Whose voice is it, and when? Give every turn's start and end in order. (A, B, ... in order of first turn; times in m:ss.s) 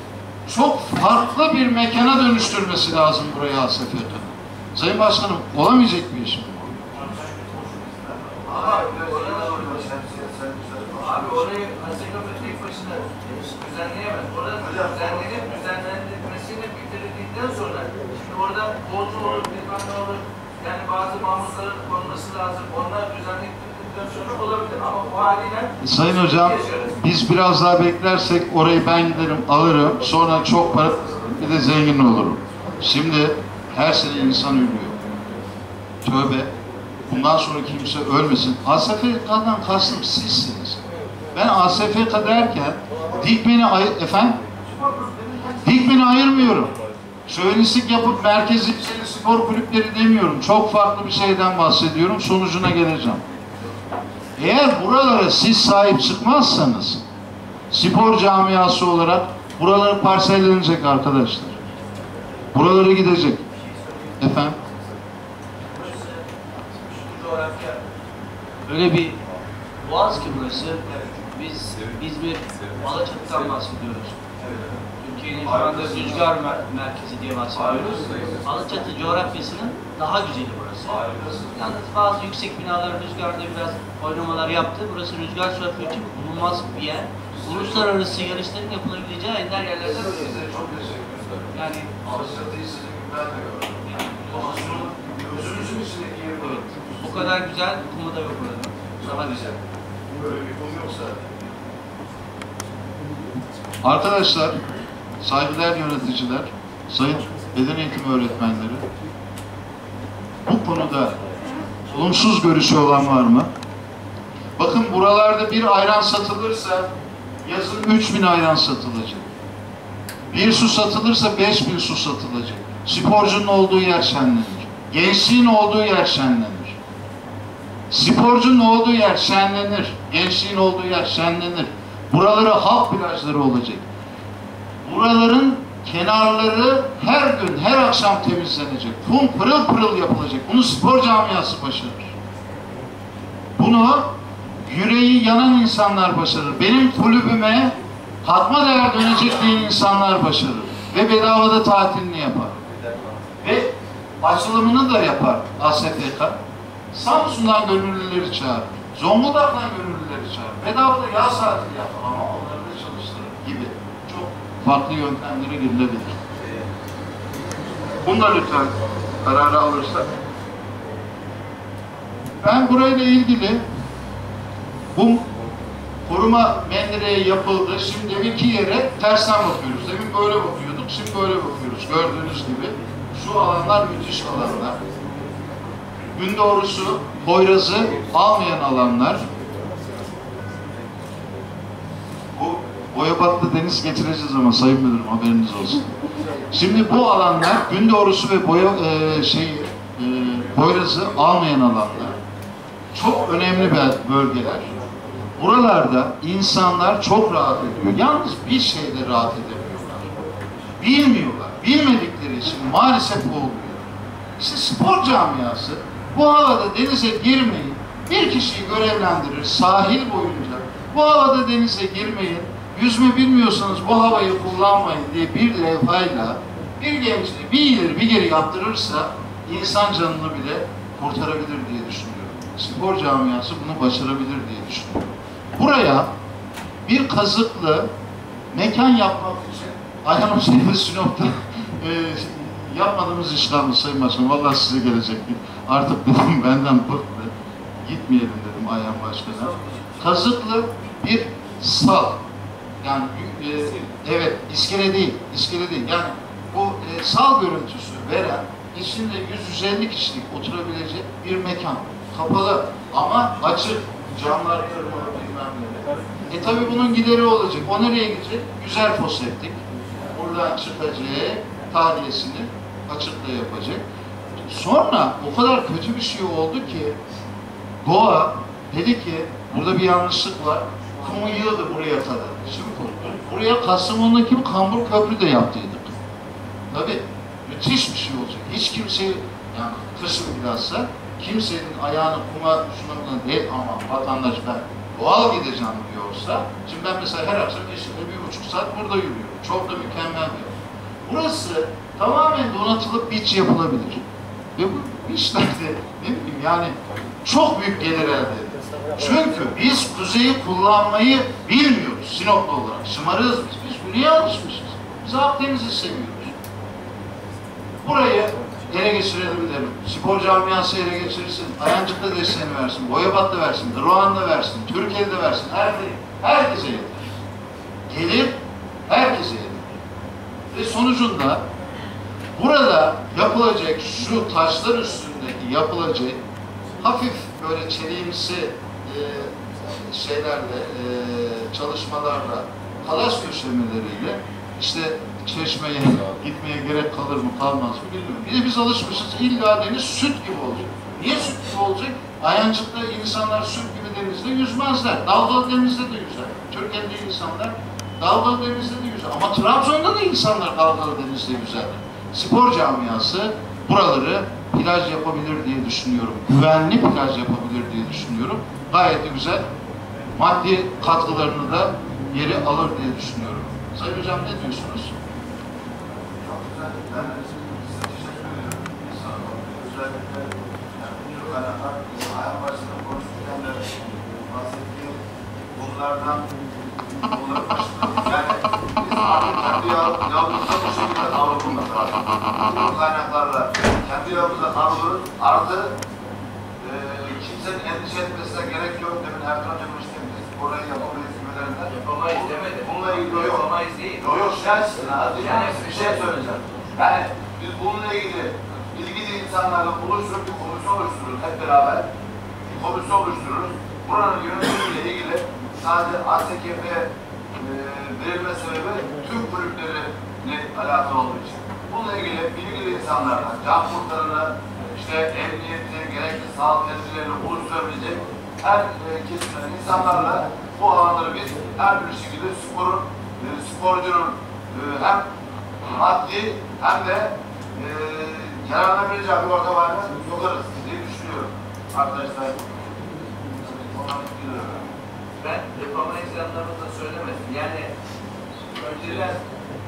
0:00.5-0:06.8 A
0:07.0-0:09.9 B
0:08.4-0:11.5 C
0:11.0-0:27.0 B
0:14.6-0:15.6 C
0:25.8-0:35.0 A
0:36.0-0:36.5 A
0:37.1-0:40.8 A
0:41.3-0:44.4 A
0:44.7-0:45.8 B
0:45.6-0:46.7 A
0:47.3-0:53.2 A
0:54.4-0:57.0 A
0:57.7-1:01.6 A
1:02.5-1:03.4 A
1:03.7-1:04.1 D
1:04.2-1:04.6 A
1:05.7-1:06.2 D
1:07.0-1:07.8 D
1:08.7-1:09.2 D
1:09.8-1:14.2 D
1:15.0-1:21.0 D
1:20.9-1:21.8 A
1:21.6-1:30.3 D
1:27.4-1:27.9 A
1:29.8-1:37.2 A
1:31.5-1:31.9 D
1:33.9-1:34.9 D
1:36.4-1:39.6 D
1:39.0-1:39.6 A
1:40.2-1:41.5 A
1:43.8-1:44.6 A
1:45.2-1:48.8 A
1:50.4-1:51.2 A
1:51.9-1:53.5 A
1:54.6-1:56.9 A
1:57.4-1:59.3 A
2:00.3-2:06.8 A
2:07.9-2:13.8 A
2:14.8-2:22.1 A
2:23.6-2:24.1 A
2:24.6-2:32.6 A
2:33.4-2:36.4 A
2:36.9-2:46.2 A
2:48.0-2:50.1 A
2:52.4-2:53.6 A
2:55.0-2:55.3 A
2:56.1-3:04.8 A
3:06.2-3:09.3 A
3:12.3-3:15.9 A
3:16.5-3:22.2 A
3:22.9-3:24.7 A
3:25.4-3:30.1 A
3:30.8-3:33.9 A
3:34.4-3:56.1 A
3:56.9-3:57.9 A
3:58.5-4:12.2 A
4:12.8-4:29.6 A
4:30.1-4:33.8 A
4:34.4-4:37.0 A
4:37.8-4:45.9 A
4:46.7-5:00.5 A
5:01.0-5:04.0 A
5:04.6-5:16.3 A
5:17.8-5:27.1 A
5:27.9-5:29.7 A
5:30.5-5:31.5 A
5:32.4-5:36.2 A
5:36.8-6:09.5 A
6:10.2-6:15.0 A
6:16.2-6:25.0 C
6:25.5-6:26.3 C
6:27.0-6:35.8 C
6:36.6-6:51.9 C
6:41.7-6:46.1 B
6:45.2-6:46.6 D
6:52.5-7:15.1 C
7:15.7-7:22.5 C
7:23.4-7:24.7 C
7:25.2-7:27.7 B
7:28.5-7:29.2 B